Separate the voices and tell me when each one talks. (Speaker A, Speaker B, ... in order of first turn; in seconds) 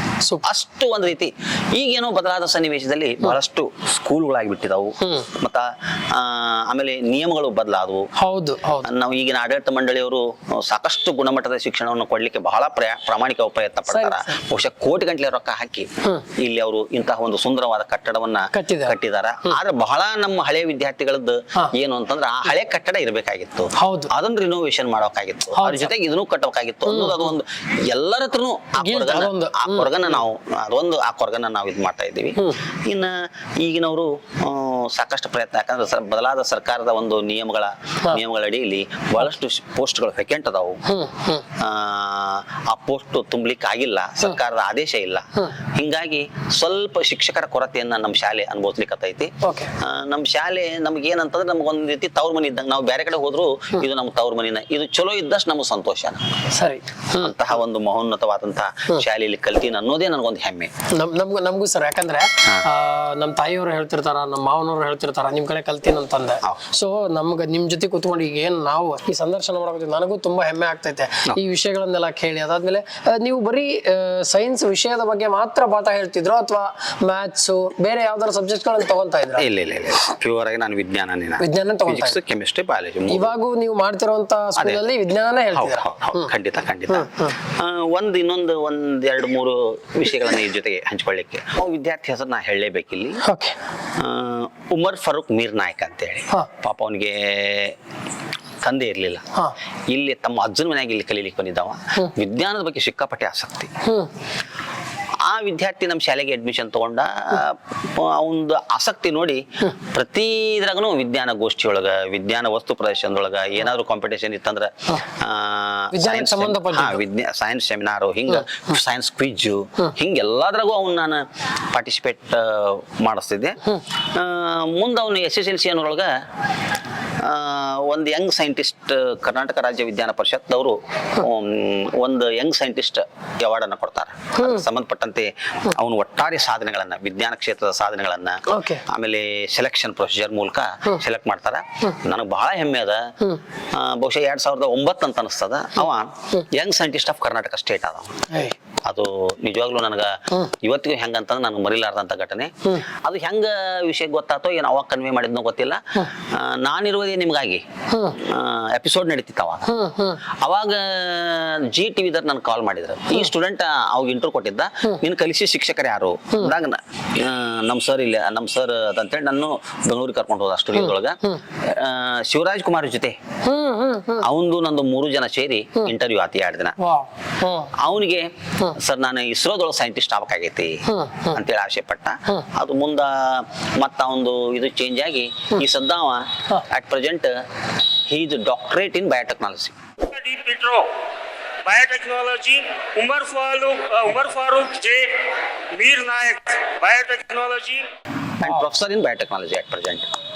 Speaker A: 0.4-8.1, 8.8-40.8, 41.5-56.3, 57.1-60.7, 79.4-83.3, 84.6-84.9, 85.5-93.2, 93.9-97.8, 98.6-99.3, 99.9-103.7, 105.2-126.1, 127.2-143.1, 143.6-148.3, 148.9-159.8, 160.4-173.2, 174.2-176.8, 177.7-187.4, 188.1-189.8, 198.4-200.1
Speaker B: 5.0-5.3, 8.2-8.9, 13.9-14.3, 18.5-18.9, 23.8-24.1, 25.6-25.9, 26.9-27.3, 28.8-30.2, 40.9-41.5, 49.4-49.7, 56.5-57.4, 60.9-79.5, 81.4-82.2, 83.1-86.3, 86.9-87.4, 93.2-93.6, 103.8-104.1, 115.9-117.0, 118.3-118.6, 134.4-134.6, 138.5-138.8, 148.3-148.6, 159.7-160.2, 170.8-171.4, 173.4-174.3, 176.8-177.8, 180.9-181.4
Speaker C: 190.1-191.0, 191.6-197.9